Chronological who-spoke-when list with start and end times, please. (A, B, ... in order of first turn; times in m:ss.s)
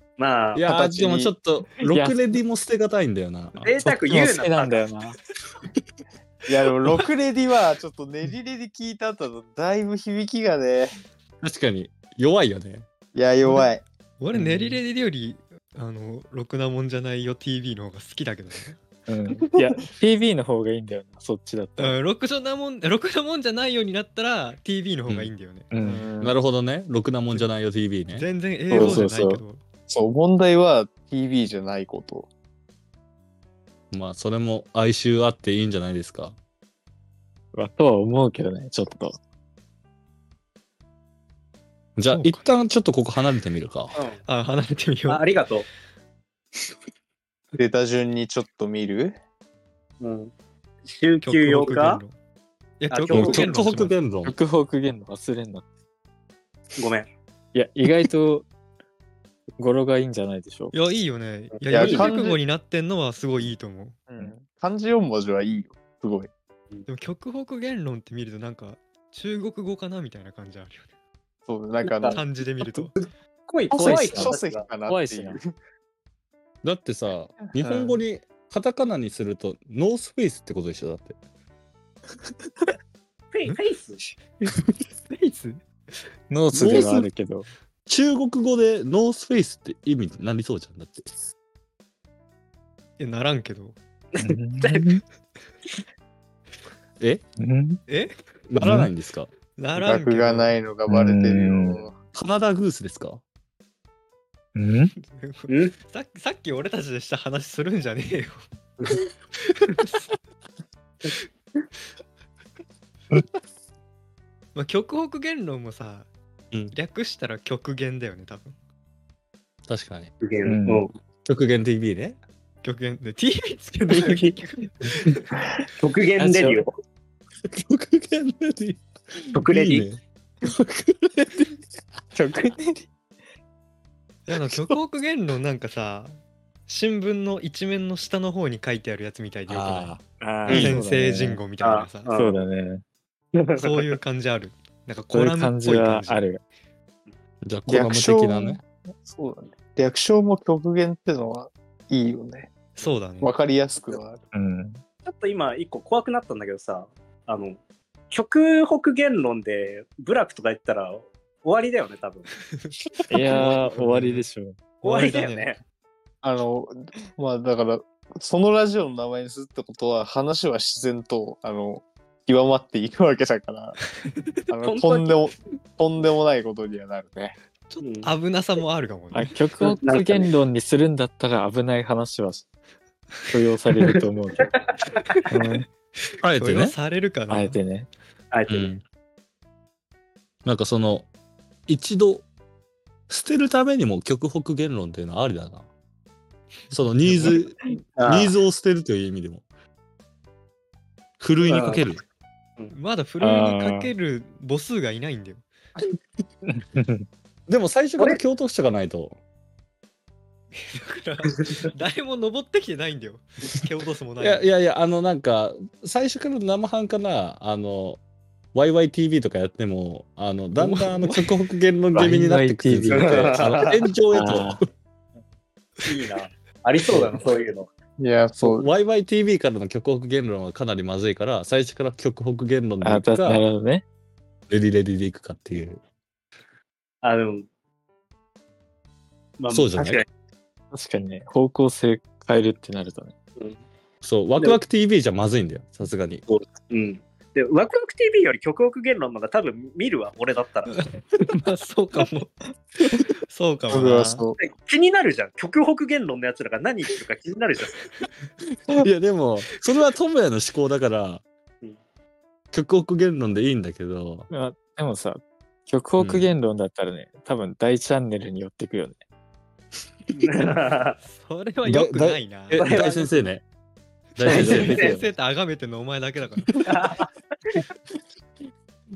0:00.2-0:00.6 A
0:00.5-0:03.7 B
0:00.6-0:01.3 C
0:01.8-0:02.2 D
0:03.6-0:04.9 A
0:03.8-0:05.2 D
0:06.5-0:11.0 C
0:11.4-0:12.9 B
0:13.1-0:13.8 C
0:14.2-0:18.8 E
0:14.3-0:14.8 D
0:19.1-0:22.0 D
0:21.8-0:26.0 E
0:25.7-0:26.0 D
0:25.8-0:26.4 C
0:26.2-0:28.3 B
0:28.1-0:29.6 E
0:28.7-0:29.1 C
0:28.7-0:29.4 D
0:29.9-0:32.3 C
0:33.9-0:36.4 B
0:37.5-0:39.2 D
0:42.0-0:44.0 B
0:42.1-0:42.4 E
0:44.0-0:44.2 A
0:44.3-0:45.3 E
0:45.1-0:45.7 A
0:47.6-0:49.2 C
0:50.0-0:50.3 A
0:50.9-0:52.0 A
0:51.2-0:52.2 E
0:52.8-0:53.9 E
0:52.9-0:53.5 A
0:53.1-0:54.4 B
0:54.2-0:55.6 D
0:56.8-0:57.1 A
0:57.5-0:58.5 D
0:59.6-1:00.7 D
1:00.7-1:04.0 E
1:01.6-1:02.1 A
1:01.7-1:02.4 C
1:04.1-1:06.3 C
1:06.9-1:10.9 E
1:11.5-1:12.2 C
1:11.8-1:12.2 A
1:12.1-1:13.0 E
1:13.5-1:14.7 A
1:13.7-1:15.4 D
1:13.7-1:15.5 C
1:16.6-1:21.2 B
1:17.6-1:18.0 C
1:23.3-1:24.0 A
1:25.1-1:25.6 E
1:26.3-1:27.5 D
1:26.5-1:27.1 B
1:27.9-1:31.1 B
1:33.0-1:33.8 E
1:34.1-1:34.9 A
1:34.2-1:35.0 D
1:37.0-1:37.2 B
1:37.4-1:37.8 D
1:37.9-1:38.2 E
1:38.5-1:39.3 B
1:38.6-1:38.9 D
1:39.6-1:40.6 E
1:39.8-1:41.9 C
1:40.9-1:41.8 D
1:42.2-1:43.2 B
1:44.6-1:44.9 D
1:45.0-1:48.4 E
1:45.5-1:45.7 A
1:49.6-1:50.0 E
1:54.6-1:56.1 E
1:56.7-1:58.6 E
1:59.7-2:00.1 B
2:00.2-2:00.9 A
2:00.4-2:00.9 D
2:01.2-2:02.2 B
2:02.6-2:05.2 E
2:03.9-2:04.4 D
2:05.8-2:06.7 A
2:06.2-2:06.6 D
2:07.5-2:11.5 B
2:09.3-2:09.9 A
2:12.1-2:12.9 D
2:14.3-2:20.0 E
2:19.5-2:20.8 B
2:20.2-2:21.4 D
2:20.5-2:22.1 E
2:21.6-2:22.3 A
2:22.1-2:22.8 D
2:23.3-2:23.8 A
2:23.6-2:26.2 E
2:25.1-2:26.4 D
2:27.4-2:28.6 B
2:27.7-2:32.5 C
2:32.8-2:33.3 E
2:33.2-2:34.2 C
2:34.3-2:34.8 D
2:35.0-2:37.6 A
2:38.1-2:42.3 A
2:42.6-2:44.2 E
2:43.1-2:44.6 D
2:44.8-2:45.6 E
2:44.8-2:45.6 A
2:46.2-2:53.8 C
2:54.5-2:57.4 C
2:54.6-2:55.2 A
2:57.7-2:59.4 E
2:57.8-2:58.1 A
2:59.1-3:02.4 D
2:59.6-3:00.3 A
3:03.3-3:04.5 D
3:03.8-3:05.2 A
3:05.3-3:05.6 D
3:06.2-3:06.8 B
3:06.4-3:07.6 E
3:07.3-3:07.9 D
3:08.3-3:08.7 A
3:08.5-3:08.8 B
3:10.4-3:11.1 B
3:11.7-3:12.3 B
3:13.1-3:15.7 B
3:16.7-3:19.4 B
3:17.0-3:17.3 E
3:18.0-3:18.3 A
3:21.2-3:22.0 B
3:21.4-3:21.8 A
3:22.7-3:25.4 E
3:23.2-3:23.9 D
3:26.5-3:27.0 D
3:27.5-3:29.2 B
3:30.6-3:34.5 E
3:34.2-3:38.0 B
3:38.5-3:44.6 B
3:40.6-3:41.2 E
3:41.9-3:43.5 D
3:42.9-3:43.8 A
3:44.1-3:44.6 D
3:45.8-3:47.7 A
3:48.0-3:48.7 C
3:48.4-3:53.4 B
3:52.8-3:53.8 D
3:54.5-3:55.8 B
3:57.0-3:57.5 A
3:59.4-4:00.1 A
3:59.5-4:00.0 B
4:00.7-4:03.1 D
4:04.0-4:06.2 B
4:06.3-4:10.7 A
4:10.7-4:12.4 E
4:13.3-4:14.2 E
4:13.7-4:14.4 C
4:14.4-4:17.8 A
4:18.7-4:21.2 B
4:22.5-4:24.3 B
4:24.3-4:29.0 D
4:26.0-4:26.3 B
4:30.2-4:31.0 A
4:31.0-4:32.8 E
4:31.6-4:33.4 B
4:32.6-4:33.1 A
4:34.2-4:34.8 B
4:34.2-4:35.1 D
4:34.3-4:36.6 E
4:34.3-4:35.0 A
4:36.6-4:37.1 A